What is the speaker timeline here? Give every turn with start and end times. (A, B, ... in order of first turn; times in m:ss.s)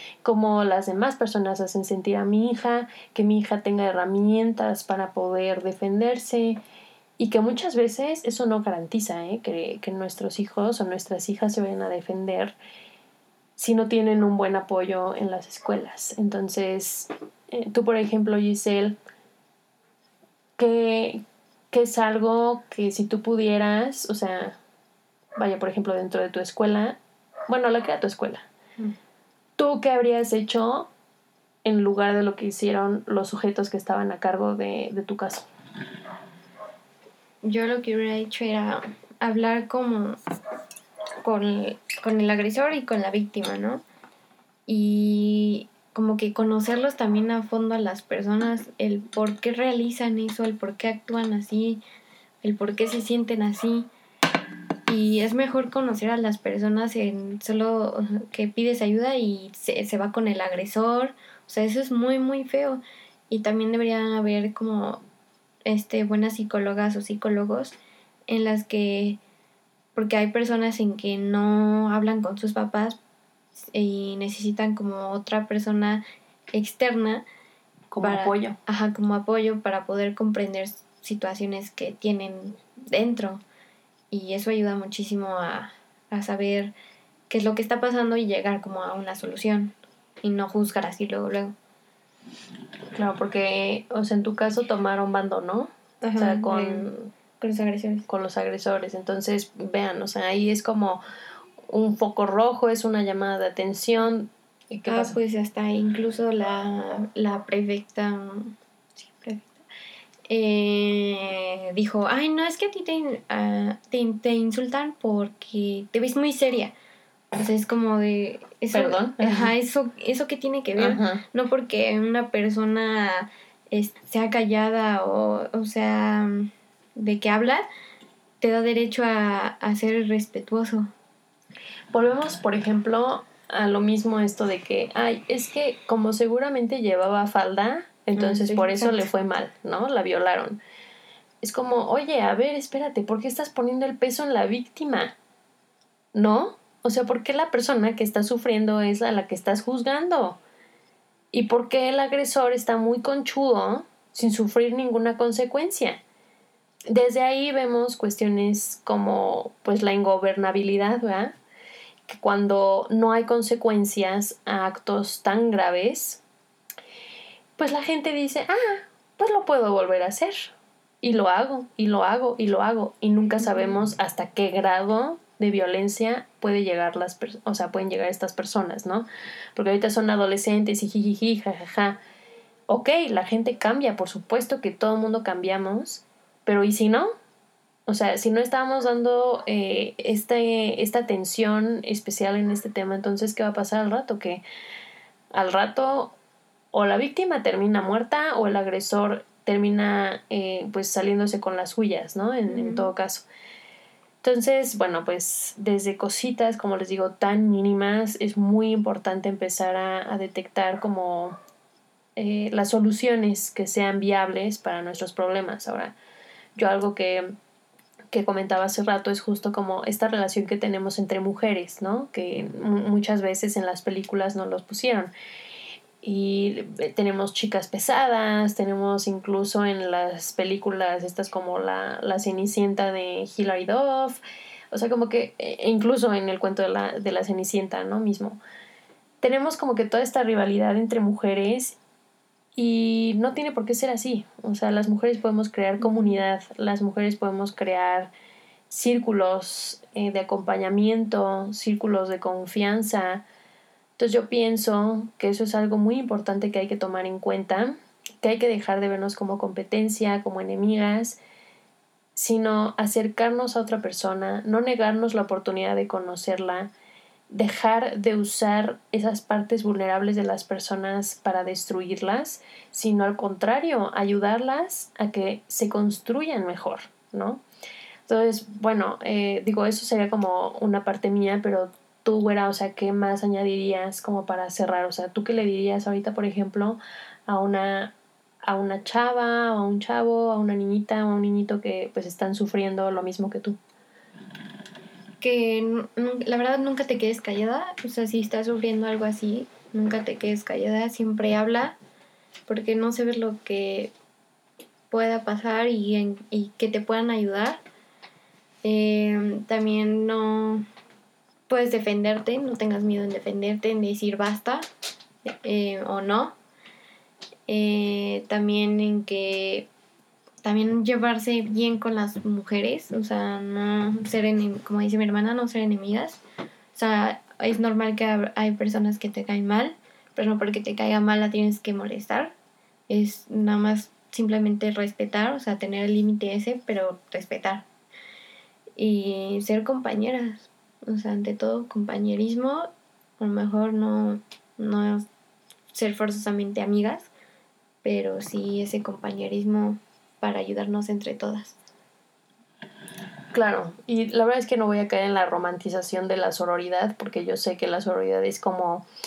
0:00.2-0:06.6 A
0:07.2-0:12.6 A
0:13.6-0:19.0 A
0:20.6-0:24.6 A
0:25.4-0:28.5 A
0:29.6-0:30.9 A
0:31.6-0:35.5 A
0:37.4-0:40.2 B
0:41.2-0:43.8 B
0:44.7-0:51.8 B
0:52.4-0:53.9 B
0:54.9-1:05.0 B
1:05.6-1:09.2 B
1:10.0-1:13.0 B
1:13.6-1:16.0 B
1:16.5-1:17.2 B
1:17.9-1:18.6 A
1:18.0-1:23.4 B
1:24.1-1:26.7 B
1:27.3-1:31.6 B
1:32.9-1:37.1 A
1:36.0-1:36.9 B
1:37.4-1:38.1 B
1:38.1-1:41.0 A
1:41.7-1:45.2 A
1:44.9-1:49.6 B
1:50.3-1:56.7 B
1:57.4-2:07.6 B
1:58.7-1:59.5 A
2:00.8-2:01.2 A
2:08.4-2:10.9 B
2:11.9-2:20.6 A
2:18.2-2:19.1 B
2:21.4-2:25.2 A
2:26.1-2:30.4 A
2:31.3-2:36.0 A
2:36.9-2:41.3 A
2:42.1-2:46.2 A
2:47.6-3:02.0 A
2:53.4-2:53.7 B
3:02.7-3:07.1 A
3:07.9-3:14.4 A
3:15.3-3:16.2 A
3:16.7-3:23.2 A
3:22.5-3:22.9 B
3:24.2-3:31.4 A
3:32.2-3:36.0 A
3:36.6-3:37.3 A
3:38.1-3:45.1 A
3:46.0-3:58.4 A
3:59.2-4:01.8 A
4:02.6-4:08.1 A
4:05.8-4:06.1 B
4:08.7-4:13.2 A
4:14.0-4:21.2 A
4:22.2-4:26.7 A
4:27.3-4:37.4 A
4:38.1-4:53.6 A
4:55.2-5:01.8 B
5:02.5-5:03.9 B
5:04.9-5:07.6 B
5:08.6-5:10.7 B
5:11.5-5:14.7 B
5:15.2-5:16.4 B
5:17.5-5:19.7 B
5:20.4-5:26.2 B
5:26.7-5:32.3 B
5:32.9-5:37.7 B
5:38.8-5:45.1 B
5:45.7-5:47.1 B
5:47.8-5:51.6 B
5:53.3-5:58.8 A